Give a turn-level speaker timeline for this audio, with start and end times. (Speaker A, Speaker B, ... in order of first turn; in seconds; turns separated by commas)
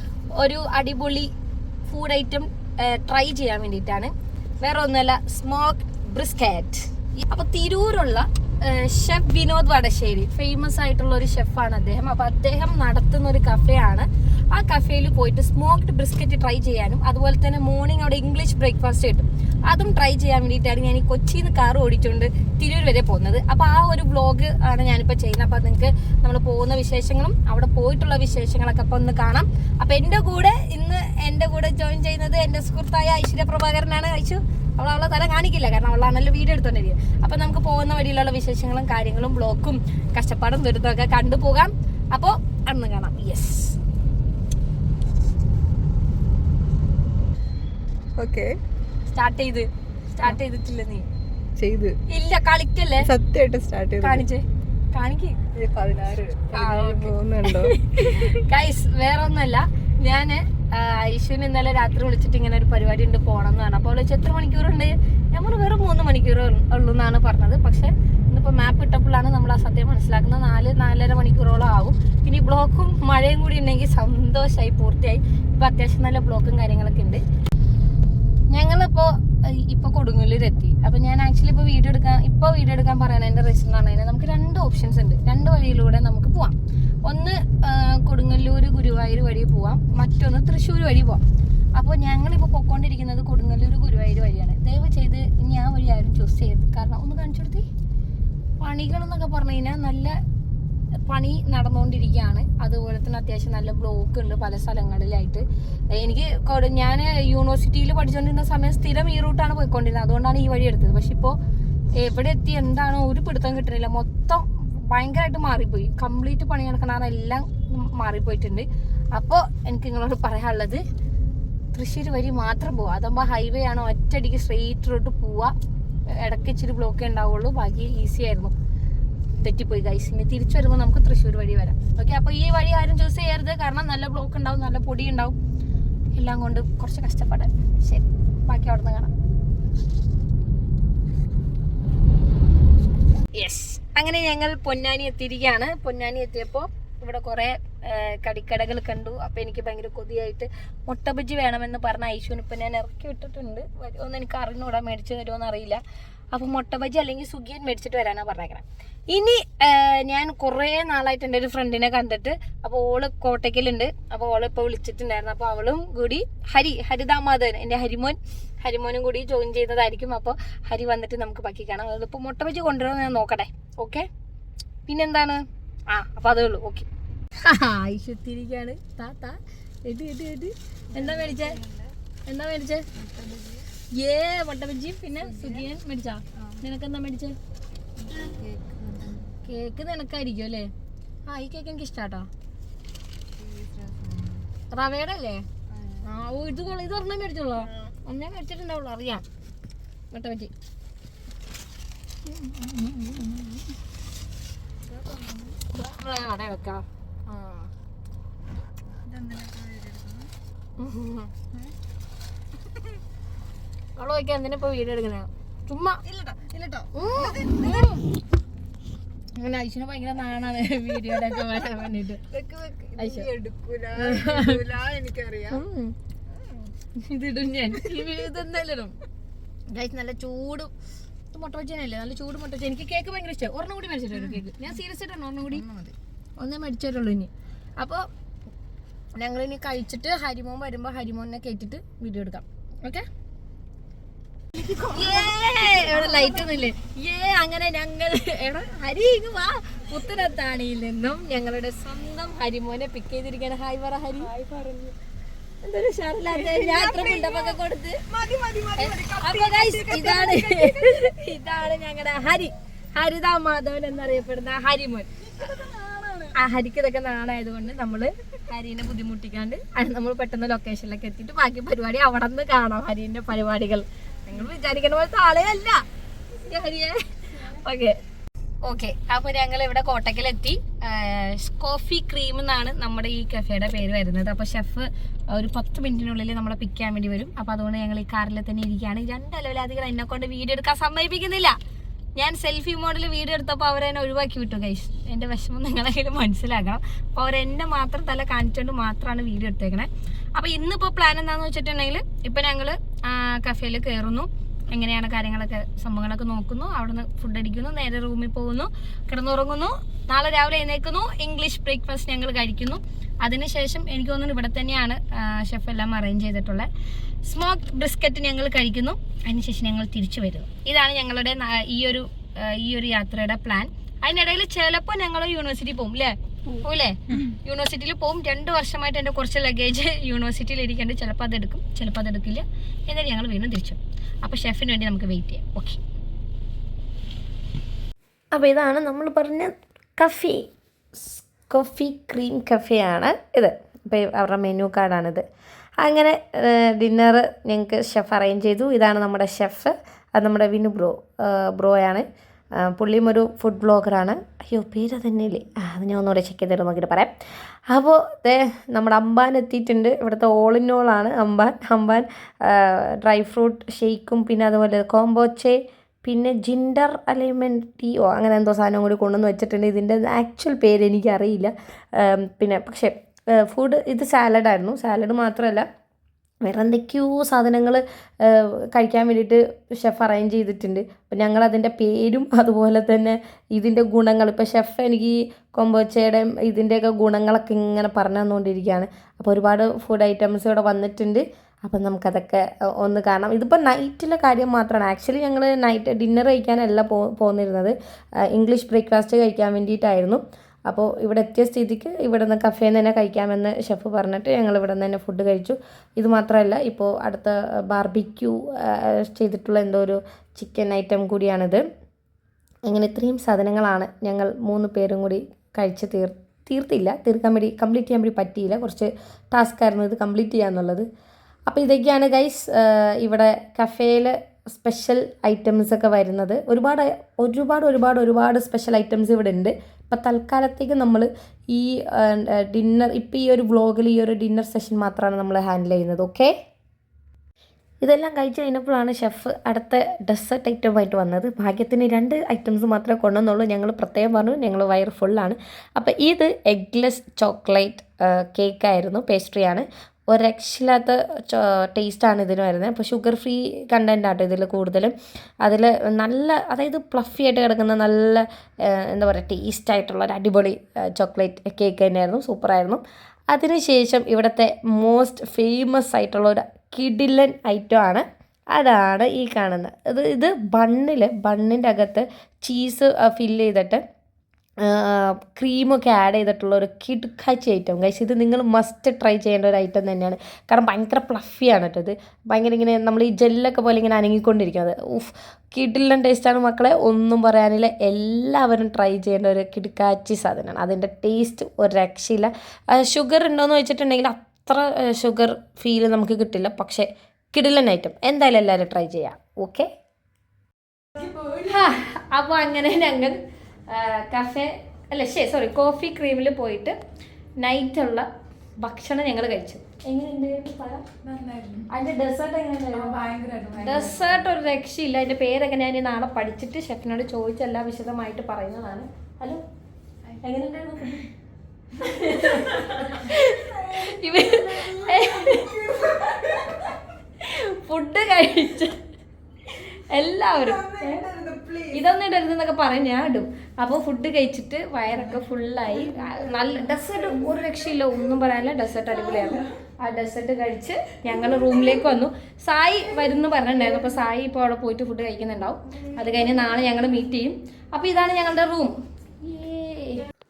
Speaker A: 0.3-1.3, Speaker A: 1.9-43.8, Speaker B: 48.2-48.6, Speaker A: 49.0-51.0, Speaker B: 51.6-52.0, Speaker A: 52.1-53.1, Speaker B: 53.0-54.3, Speaker A: 54.0-55.4, Speaker B: 55.5-58.4, Speaker A: 56.5-77.2, Speaker A: 78.5-91.2, Speaker A: 91.7-97.7, Speaker A: 98.6-100.2, Speaker A: 101.0-111.4, Speaker A: 111.9-120.8, Speaker A: 121.7-125.5, Speaker A: 126.1-128.5, Speaker A: 129.3-135.4, Speaker A: 136.1-139.1, Speaker A: 143.3-155.8, Speaker A: 156.3-174.1, Speaker A: 174.9-176.9, Speaker A: 177.4-181.6, Speaker B: 180.9-181.9, Speaker A: 182.2-182.8, Speaker B: 182.9-183.7, Speaker A: 183.9-187.3, Speaker B: 185.2-185.7, Speaker B: 186.3-186.6, Speaker B: 188.0-189.3, Speaker A: 189.4-190.7, Speaker A: 191.2-192.3, Speaker B: 193.4-194.5, Speaker A: 194.7-195.5, Speaker B: 195.7-196.1, Speaker A: 196.0-199.2, Speaker A: 200.1-200.5, Speaker A: 202.2-203.6, Speaker B: 204.9-205.6, Speaker A: 205.7-206.8, Speaker B: 207.2-207.7, Speaker B: 209.0-210.3, Speaker A: 210.8-211.3, Speaker A: 213.9-216.0, Speaker B: 216.0-218.0, Speaker A: 216.9-218.1, Speaker A: 219.3-222.2, Speaker B: 222.3-225.6, Speaker A: 223.0-223.3, Speaker A: 223.9-224.6, Speaker A: 225.5-225.9, Speaker B: 226.3-226.7, Speaker A: 226.9-229.0, Speaker B: 227.7-228.1, Speaker A: 229.7-230.7, Speaker A: 231.3-235.7, Speaker B: 234.1-234.5, Speaker B: 235.5-235.9, Speaker A: 236.4-238.1, Speaker A: 239.1-243.1, Speaker B: 244.5-246.6, Speaker A: 244.9-254.3, Speaker B: 254.2-254.9, Speaker A: 255.6-258.0, Speaker B: 256.3-261.1, Speaker A: 258.8-265.1, Speaker B: 265.3-266.4, Speaker A: 266.3-278.0, Speaker A: 278.6-291.6, Speaker A: 292.1-316.7, Speaker A: 317.2-335.8, Speaker A: 338.3-345.2, Speaker A: 345.8-357.1, Speaker A: 357.7-375.7, Speaker A: 376.4-411.6, Speaker A: 412.6-420.9, Speaker A: 421.5-436.3, Speaker A: 437.8-473.8, Speaker A: 474.6-499.7, Speaker B: 501.0-501.4, Speaker A: 501.2-506.8, Speaker A: 507.4-508.1, Speaker A: 508.6-510.9, Speaker B: 511.0-511.7, Speaker A: 511.7-519.4, Speaker B: 512.8-514.1, Speaker A: 520.2-521.1, Speaker A: 521.7-526.6, Speaker B: 522.0-526.7, Speaker A: 527.2-528.8, Speaker A: 529.5-531.0, Speaker B: 530.4-531.8, Speaker A: 531.7-550.1